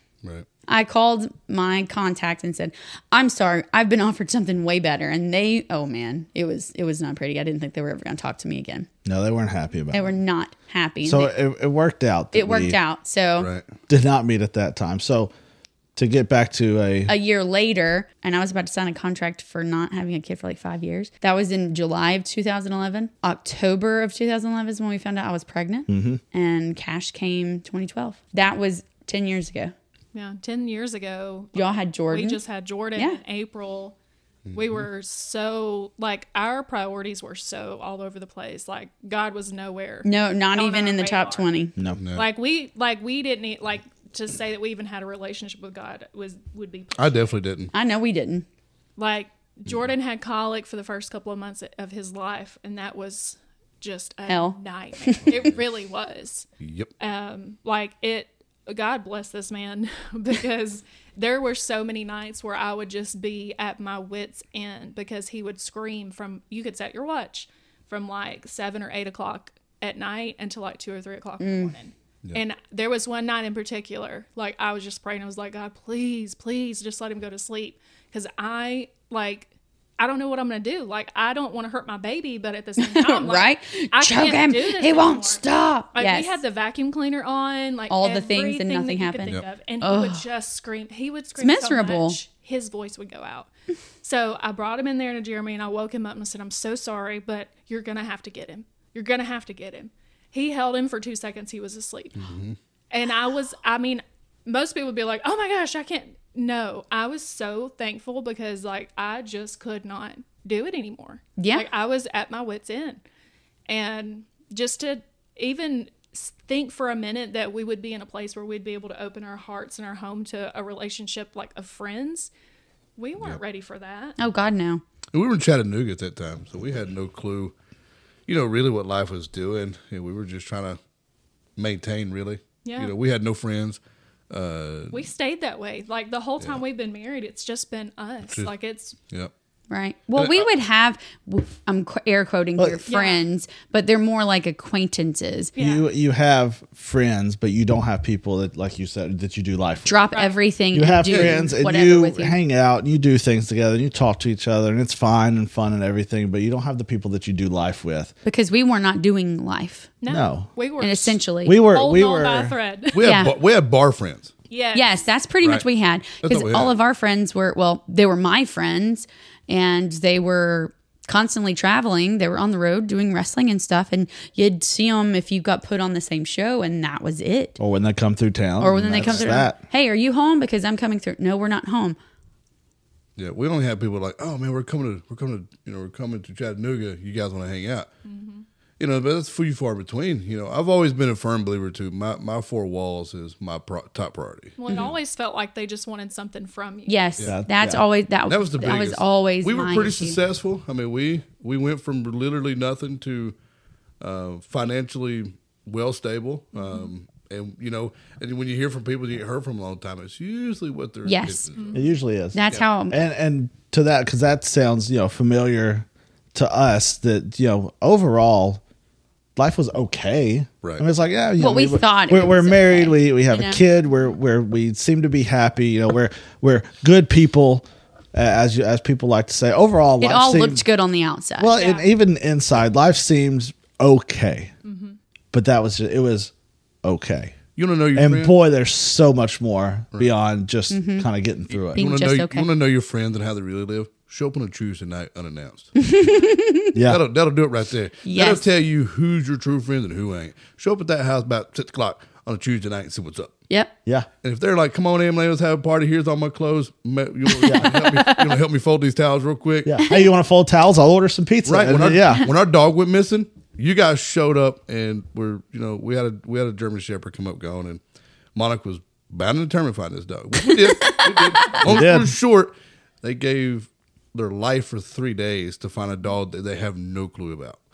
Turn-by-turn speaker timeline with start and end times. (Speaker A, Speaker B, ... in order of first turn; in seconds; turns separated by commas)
Speaker A: 0.7-8.9, Speaker B: 9.1-10.2, Speaker A: 9.9-11.3, Speaker B: 11.1-12.8, Speaker A: 12.3-13.5, Speaker C: 13.4-13.7, Speaker B: 13.9-15.3, Speaker B: 16.0-17.1, Speaker A: 17.1-29.7, Speaker B: 25.9-26.2, Speaker D: 30.1-34.0, Speaker A: 31.6-32.4, Speaker C: 34.5-34.9, Speaker D: 34.5-41.5, Speaker A: 40.0-41.8, Speaker C: 42.0-42.3, Speaker D: 42.1-47.3, Speaker C: 47.0-47.7, Speaker A: 47.7-48.5, Speaker D: 49.0-56.5, Speaker A: 54.3-55.4, Speaker C: 56.6-56.9, Speaker D: 57.0-85.4, Speaker A: 71.4-71.8, Speaker A: 82.8-86.4, Speaker D: 85.9-93.5, Speaker A: 87.9-90.2, Speaker A: 91.4-92.2, Speaker D: 94.0-102.3, Speaker C: 102.2-102.6, Speaker D: 102.9-113.0, Speaker A: 111.4-111.7, Speaker D: 113.7-122.3, Speaker D: 123.0-124.2, Speaker A: 124.2-124.8, Speaker C: 125.1-127.5, Speaker C: 128.3-130.8, Speaker C: 131.6-133.8, Speaker D: 132.6-132.9, Speaker C: 134.3-135.0, Speaker D: 134.9-139.0, Speaker A: 139.7-145.5, Speaker C: 140.2-140.5, Speaker B: 142.6-142.8, Speaker D: 142.9-143.2, Speaker D: 145.6-145.9, Speaker B: 145.6-149.9, Speaker A: 149.8-152.4, Speaker D: 150.1-150.4, Speaker B: 150.7-158.1, Speaker A: 158.2-159.9, Speaker D: 160.0-163.1, Speaker B: 160.1-160.5, Speaker A: 160.8-161.6, Speaker B: 161.5-162.6, Speaker C: 162.9-164.3, Speaker A: 163.0-163.3, Speaker D: 164.5-164.9, Speaker A: 164.7-177.6, Speaker C: 166.2-166.7, Speaker B: 177.6-179.6, Speaker A: 178.6-182.0, Speaker C: 179.0-179.4, Speaker C: 183.2-187.9, Speaker D: 188.1-188.5, Speaker C: 188.8-194.9, Speaker D: 194.6-197.1, Speaker A: 196.9-200.2, Speaker B: 197.2-197.8, Speaker C: 198.3-203.3, Speaker C: 204.0-211.8, Speaker D: 206.5-206.9, Speaker A: 211.1-211.5, Speaker D: 211.6-211.9, Speaker B: 211.7-218.6, Speaker A: 212.3-213.0, Speaker B: 219.4-230.7, Speaker A: 221.4-223.6, Speaker A: 230.0-231.6, Speaker B: 231.4-234.5, Speaker D: 231.5-231.9, Speaker D: 234.6-235.0, Speaker B: 235.3-236.3, Speaker B: 236.8-237.4, Speaker C: 237.6-238.3, Speaker B: 237.9-241.8, Speaker A: 240.7-241.1, Speaker C: 241.6-245.7, Speaker A: 241.7-242.5, Speaker A: 245.8-246.8, Speaker B: 246.7-247.0, Speaker C: 246.8-253.3, Speaker A: 248.0-248.5, Speaker C: 254.2-259.8, Speaker A: 257.3-258.4, Speaker B: 259.6-262.3, Speaker A: 259.8-260.1, Speaker C: 261.5-267.8, Speaker C: 268.4-277.6, Speaker A: 270.4-271.6, Speaker B: 271.6-272.2